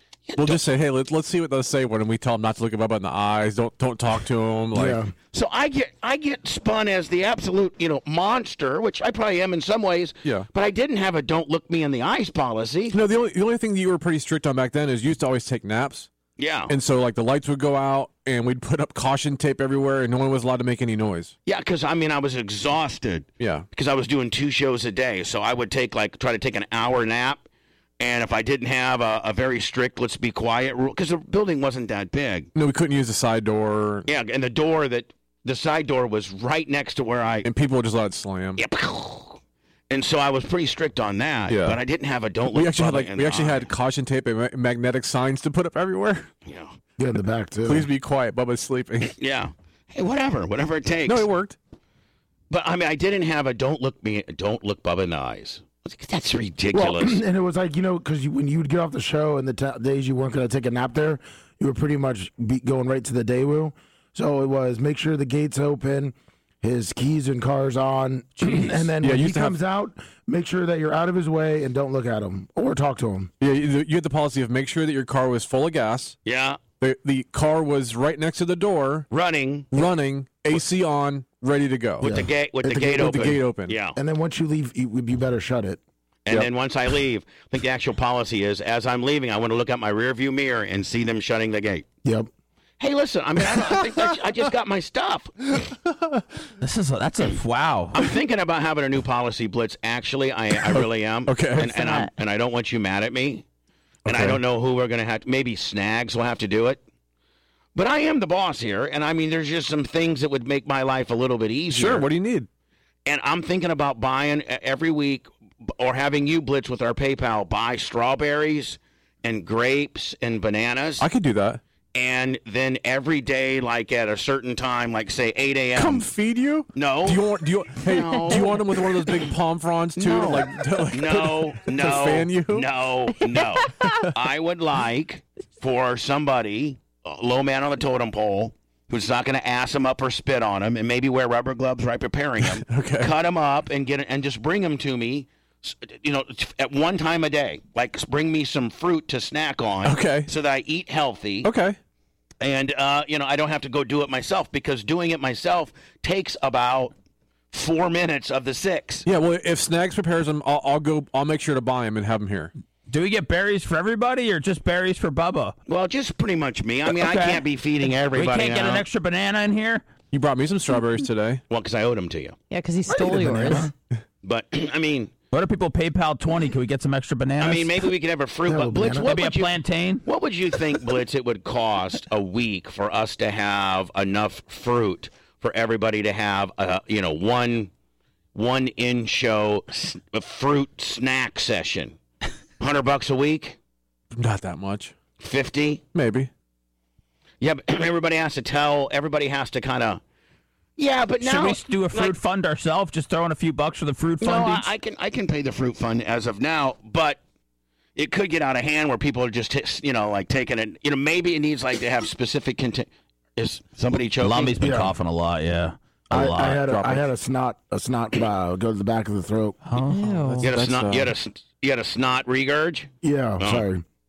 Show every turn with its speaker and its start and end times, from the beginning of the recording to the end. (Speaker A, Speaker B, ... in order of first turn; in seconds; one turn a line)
Speaker A: 0.3-0.7
Speaker B: 0.4-5.0
Speaker C: 4.7-5.1
Speaker A: 5.3-13.0
Speaker B: 12.9-16.1
Speaker A: 16.4-16.7
Speaker B: 16.7-21.3
Speaker A: 21.4-27.4
Speaker B: 23.4-23.7
Speaker A: 28.0-32.5
Speaker B: 32.5-34.1
Speaker A: 34.1-37.5
Speaker B: 37.4-38.6
Speaker A: 38.6-39.4
Speaker A: 39.9-43.7
Speaker B: 41.5-41.8
Speaker B: 42.5-46.3
Speaker A: 46.5-46.7
Speaker C: 47.0-47.9
Speaker B: 47.6-49.1
Speaker A: 49.1-51.3
Speaker B: 51.0-51.6
Speaker A: 52.5-57.2
Speaker C: 56.7-73.3
Speaker B: 69.0-69.6
Speaker B: 73.4-76.2
Speaker A: 76.2-76.6
Speaker B: 76.8-79.1
Speaker A: 79.1-79.8
Speaker B: 79.7-82.1
Speaker A: 82.0-84.0
Speaker C: 82.0-83.4
Speaker B: 82.8-83.8
Speaker C: 83.9-86.5
Speaker A: 86.2-91.9
Speaker A: 92.8-95.3
Speaker B: 95.9-96.2
Speaker D: 96.6-98.0
Speaker A: 97.9-103.4
Speaker B: 100.7-101.8
Speaker E: 101.7-102.1
Speaker B: 104.0-104.4
Speaker A: 104.1-106.8
Speaker A: 107.7-112.1
Speaker B: 111.7-112.5
Speaker A: 113.1-121.1
Speaker B: 121.0-121.6
Speaker A: 121.9-126.1
Speaker B: 125.7-132.7
Speaker A: 126.7-128.6
Speaker A: 130.9-151.5
Speaker E: 133.4-134.0
Speaker B: 142.4-143.1
Speaker B: 149.8-150.3
Speaker B: 151.4-151.8
Speaker A: 152.4-156.9
Speaker A: 157.5-159.1
Speaker B: 159.1-162.5
Speaker D: 162.9-165.6
Speaker A: 165.7-168.8
Speaker D: 166.9-167.4
Speaker D: 168.1-169.8
Speaker B: 170.1-171.4
Speaker A: 171.5-172.4
Speaker E: 172.5-173.7
Speaker C: 172.9-173.7
Speaker A: 174.2-175.1
Speaker D: 175.3-177.9
Speaker A: 177.4-187.7
Speaker C: 178.4-179.1
Speaker D: 179.1-180.0
Speaker A: 188.3-192.0
Speaker A: 192.6-193.6
Speaker B: 194.1-194.9
Speaker A: 195.2-195.8
Speaker B: 195.9-196.3
Speaker A: 197.4-200.0
Speaker A: 200.8-202.1
Speaker D: 201.2-204.7
Speaker A: 204.2-207.2
Speaker A: 207.9-214.6
Speaker D: 214.2-217.0
Speaker C: 214.6-214.9
Speaker C: 216.1-219.6
Speaker D: 219.7-220.1
Speaker E: 219.9-220.5
Speaker B: 220.1-221.1
Speaker A: 220.4-223.7
Speaker C: 223.0-223.8